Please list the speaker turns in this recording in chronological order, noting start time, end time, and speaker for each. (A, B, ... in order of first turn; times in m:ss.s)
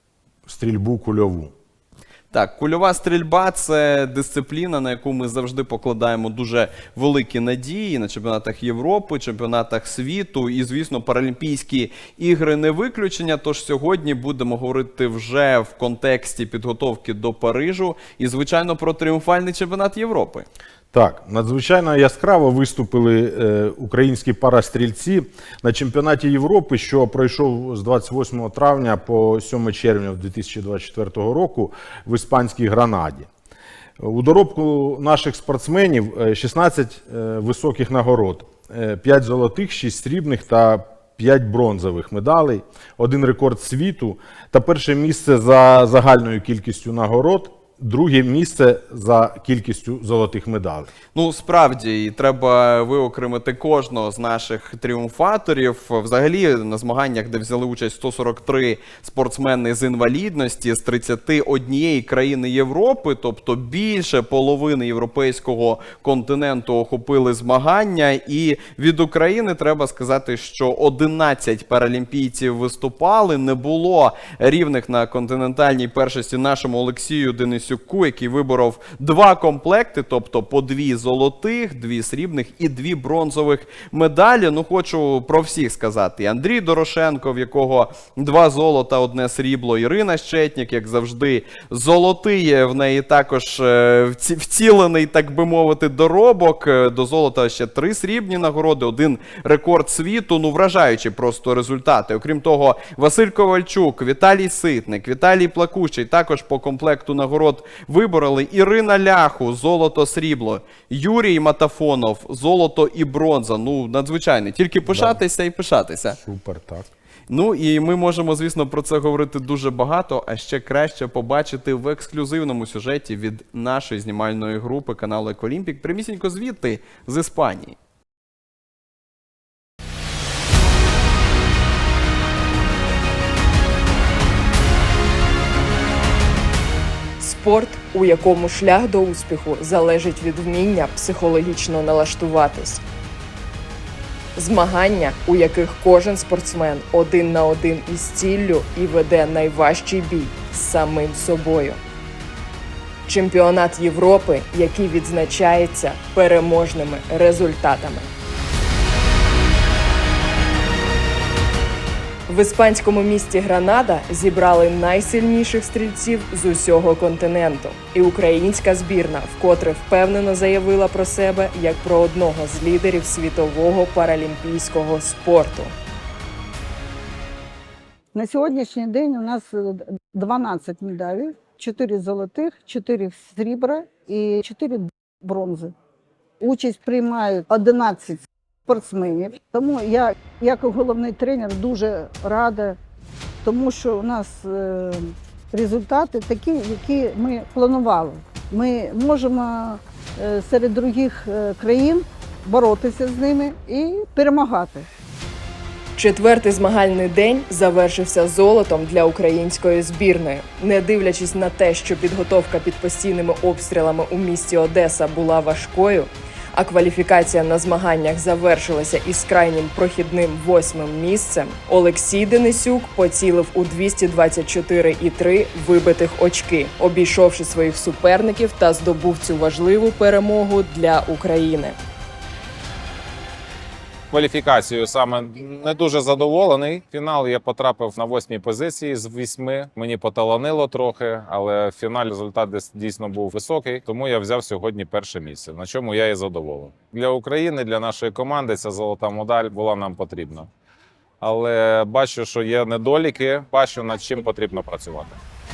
0:00.4-0:01.5 A
0:02.3-0:20.4 B
0:20.9-0:33.3 A
0:34.0-0:50.9 A
0:51.1-1:56.2 B
1:54.8-1:55.2 A
1:56.1-1:56.9 A
1:57.3-2:07.8 B
2:17.2-2:22.8 C
2:24.4-2:31.8 C
2:33.1-2:38.1 C
2:42.3-2:55.7 C
2:58.1-3:05.7 D
3:06.4-3:12.8 D
3:13.4-3:24.9 D
3:26.0-3:51.8 C
3:54.1-4:10.5 E
4:11.2-4:15.2 E